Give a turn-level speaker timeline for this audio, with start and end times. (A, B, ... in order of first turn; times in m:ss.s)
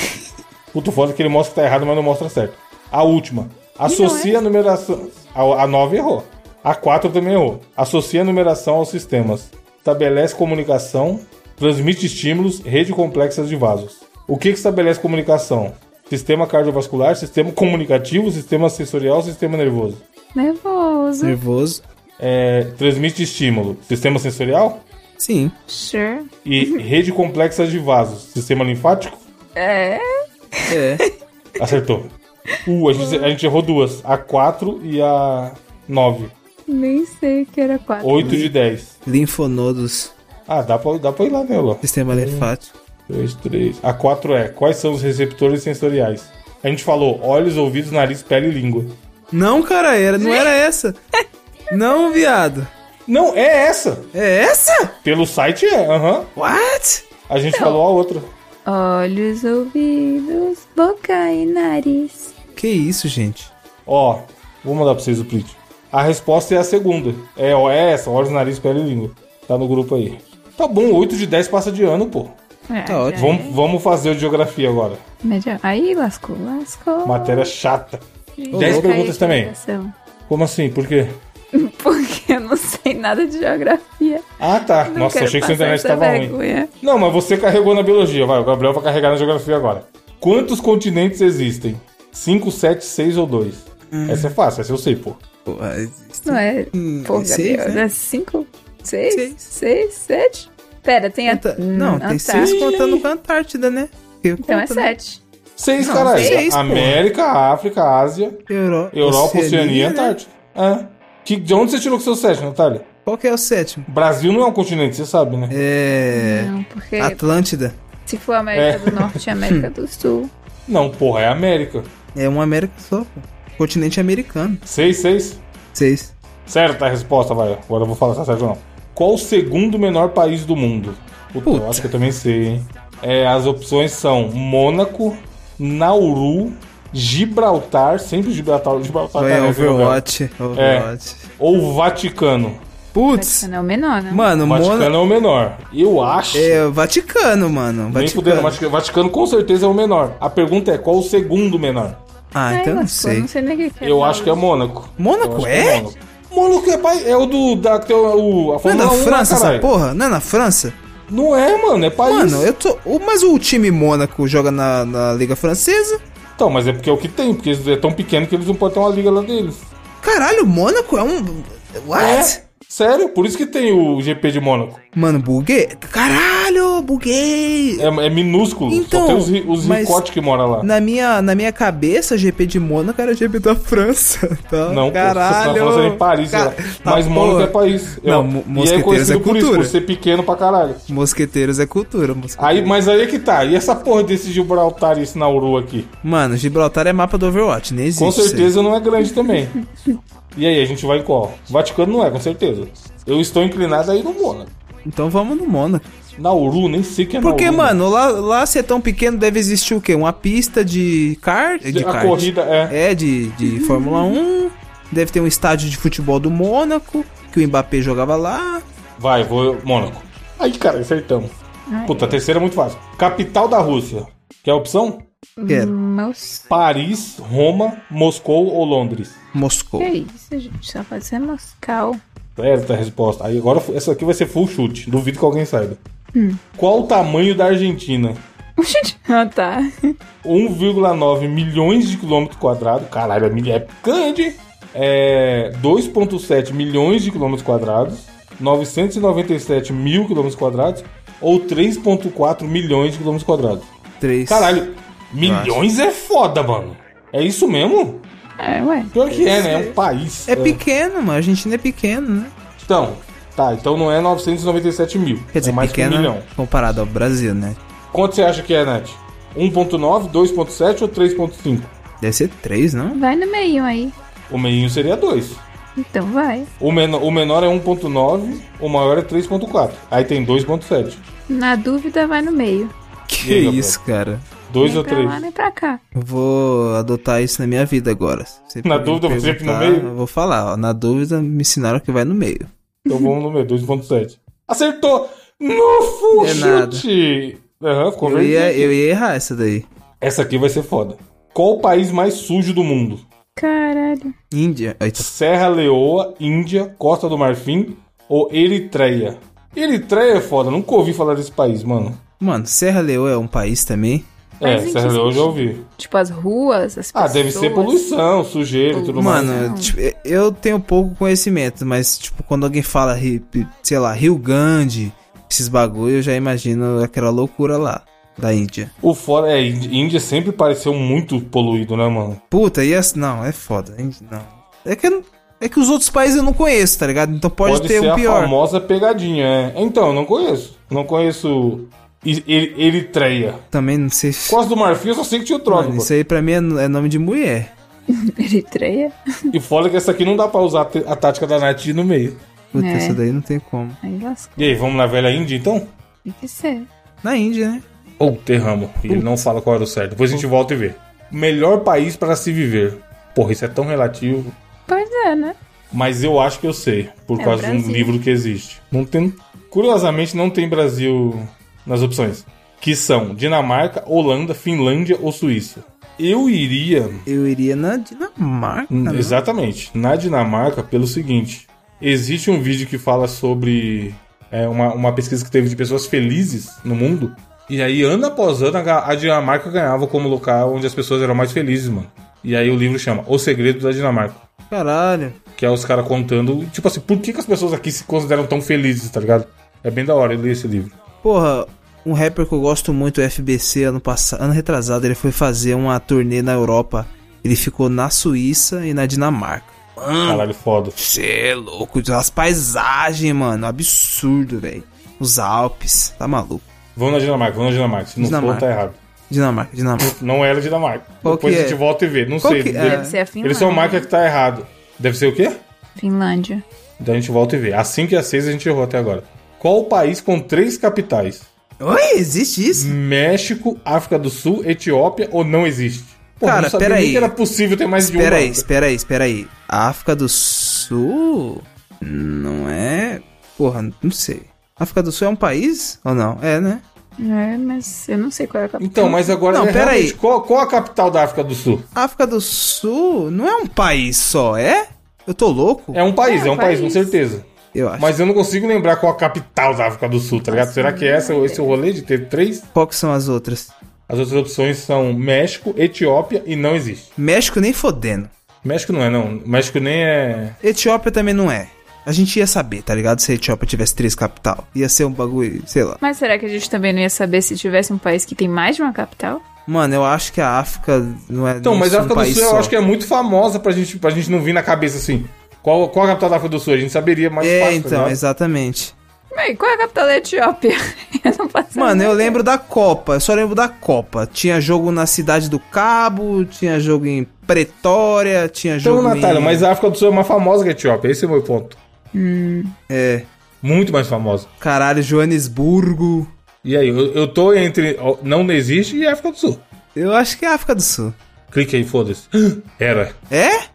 0:00.7-0:20.0 A
0:03.8-0:04.4 B
0:20.3-0:21.4 B
0:21.2-0:21.8 C
0:22.2-0:24.8 A
0:25.2-0:25.5 C
0:25.7-0:26.8 B
0:26.4-0:29.2 A
0:29.6-0:30.8 B
0:30.7-0:31.0 C
0:31.6-0:32.1 A
0:32.6-0:36.3 A
0:32.9-0:33.3 B
0:36.7-0:38.4 B
0:38.0-0:38.9 A
0:38.2-0:38.5 C
0:39.0-0:40.1 C
0:40.5-0:42.5 A
0:41.8-0:42.7 C
0:43.1-0:49.0 A
0:49.3-0:51.0 C
0:50.2-0:50.5 B
0:51.7-0:52.7 C
0:53.1-0:54.1 A
0:54.1-0:54.9 C
0:55.0-0:56.3 A
0:56.4-0:57.1 C
0:57.3-0:58.3 A
0:57.5-0:57.8 B
0:58.6-1:02.3 B
1:02.6-1:03.5 C
1:03.8-1:12.4 A
1:12.7-1:13.6 B
1:12.8-1:13.4 C
1:13.1-1:15.0 A
1:15.2-1:17.5 B
1:17.0-1:19.5 A
1:18.4-1:19.9 B
1:18.5-1:18.9 C
1:20.3-1:21.2 A
1:21.5-1:24.2 B
1:24.4-1:35.2 A
1:24.9-1:26.7 B
1:33.9-1:34.4 C
1:35.4-1:37.8 C
1:36.2-1:43.0 B
1:39.1-1:39.5 C
1:41.3-1:44.9 C
1:42.4-1:42.8 A
1:44.4-1:45.2 B
1:45.6-1:52.9 A
1:45.8-1:47.0 C
1:46.1-1:46.4 B
1:48.5-1:50.2 C
1:53.0-1:53.9 C
1:53.9-1:55.6 A
1:55.5-1:57.8 C
1:56.1-1:57.2 B
1:58.1-2:00.3 B
1:58.5-1:59.2 A
1:59.4-1:59.7 C
2:00.7-2:01.9 A
2:02.1-2:04.6 C
2:04.6-2:05.4 A
2:05.7-2:06.1 C
2:06.5-2:20.0 A
2:11.4-2:11.9 C
2:19.2-2:21.3 C
2:20.5-2:22.6 A
2:22.9-2:23.5 C
2:23.1-2:24.3 B
2:24.1-2:24.9 C
2:24.4-2:26.6 A
2:26.3-2:28.6 C
2:27.9-2:32.0 A
2:32.3-2:33.3 C
2:32.5-2:34.4 B
2:33.8-2:39.7 A
2:35.0-2:35.8 C
2:38.6-2:40.8 C
2:41.1-2:42.5 A
2:42.0-2:46.0 C
2:46.4-2:49.7 A
2:50.0-2:52.4 C
2:51.9-2:54.8 A
2:54.9-2:57.9 C
2:57.8-3:00.7 A
2:58.7-3:00.0 C
3:00.6-3:09.7 C
3:04.7-3:10.8 A
3:10.9-3:12.7 C
3:12.4-3:15.9 A
3:16.0-3:18.5 C
3:18.0-3:19.6 A
3:19.0-3:19.3 B
3:20.3-3:24.5 A
3:24.8-3:25.9 C
3:26.2-3:27.8 A
3:27.2-3:38.6 C
3:31.6-3:32.8 A
3:33.4-3:34.2 B
3:39.0-3:41.3 A
3:41.7-3:42.2 B
3:41.8-3:45.1 A
3:45.4-3:46.4 B
3:46.5-3:49.2 A
3:49.3-3:49.9 C
3:49.8-3:52.0 B
3:52.4-3:55.8 A
3:56.1-3:56.4 B
3:56.6-3:58.2 A
3:58.6-3:59.9 B
4:00.2-4:13.7 A
4:14.0-4:14.6 C
4:14.3-4:18.1 A
4:15.2-4:15.6 C
4:18.4-4:19.7 B
4:18.9-4:20.6 A
4:20.3-4:22.3 C
4:22.6-4:26.3 A
4:25.3-4:27.6 C
4:27.9-4:31.7 A
4:32.0-4:33.0 C
4:32.9-4:33.9 B
4:34.3-4:35.4 A
4:35.8-4:36.5 B
4:36.6-4:41.0 A
4:41.3-4:42.7 B
4:43.1-4:44.2 C
4:43.2-4:43.8 A
4:44.5-4:45.2 A
4:44.6-4:45.8 B
4:45.9-4:52.5 C
4:48.6-4:49.9 A
4:52.9-4:58.8 A
4:56.2-4:56.8 C
4:58.0-4:59.7 C
5:00.0-5:03.0 A
5:03.4-5:04.1 B
5:04.3-5:05.1 C
5:05.0-5:12.0 A
5:12.2-5:14.1 C
5:14.4-5:15.7 A
5:14.4-5:17.8 B
5:16.9-5:19.4 A
5:18.7-5:19.7 B
5:19.0-5:28.7 C
5:28.8-5:32.2 A
5:32.3-5:38.3 C
5:37.4-5:43.4 A
5:43.5-5:44.4 C
5:44.3-5:45.9 A
5:45.5-5:47.5 C
5:47.9-5:49.3 B
5:49.3-5:52.2 A
5:52.5-5:53.8 C
5:52.6-5:53.0 B
5:53.8-5:54.6 B
5:54.4-5:55.7 A
5:56.0-5:56.7 B
5:57.0-5:57.6 C
5:58.0-6:04.4 A
5:58.9-5:59.2 C
6:04.7-6:05.4 B
6:05.7-6:17.0 A
6:07.2-6:07.9 B
6:17.0-6:19.2 C
6:18.7-6:34.2 A
6:34.5-6:35.2 C
6:35.4-6:40.8 A
6:41.0-6:50.2 C
6:50.0-6:50.8 A
6:50.8-6:56.4 C
6:56.8-6:58.8 A
6:58.0-6:58.4 C
6:59.1-6:59.9 C
6:59.8-7:05.4 A
7:01.0-7:01.6 C
7:02.2-7:03.0 C
7:02.6-7:03.9 B
7:05.8-7:06.4 B
7:06.8-7:11.3 A
7:11.6-7:12.7 C
7:12.5-7:18.4 A
7:16.2-7:17.1 C
7:17.8-7:26.6 C
7:27.0-7:29.2 B
7:28.6-7:31.6 A
7:29.3-7:30.0 C
7:31.7-7:35.8 C
7:35.7-7:42.4 A
7:36.0-7:37.0 B
7:37.5-7:37.9 C
7:40.1-7:41.6 B
7:42.5-7:43.5 C
7:43.9-7:46.9 A
7:47.0-7:48.1 C
7:48.4-7:50.4 A
7:50.4-7:55.8 C
7:55.8-7:59.2 B
7:59.5-8:02.5 C
8:01.4-8:08.0 A
8:07.2-8:08.7 C
8:09.1-8:12.2 B
8:11.5-8:19.4 C
8:18.6-8:21.6 A
8:21.9-8:22.5 B
8:22.7-8:23.1 C
8:23.4-8:24.3 A
8:24.4-8:26.1 C
8:26.4-8:29.4 A
8:29.7-8:30.9 C
8:31.3-8:33.0 A
8:33.1-8:33.4 C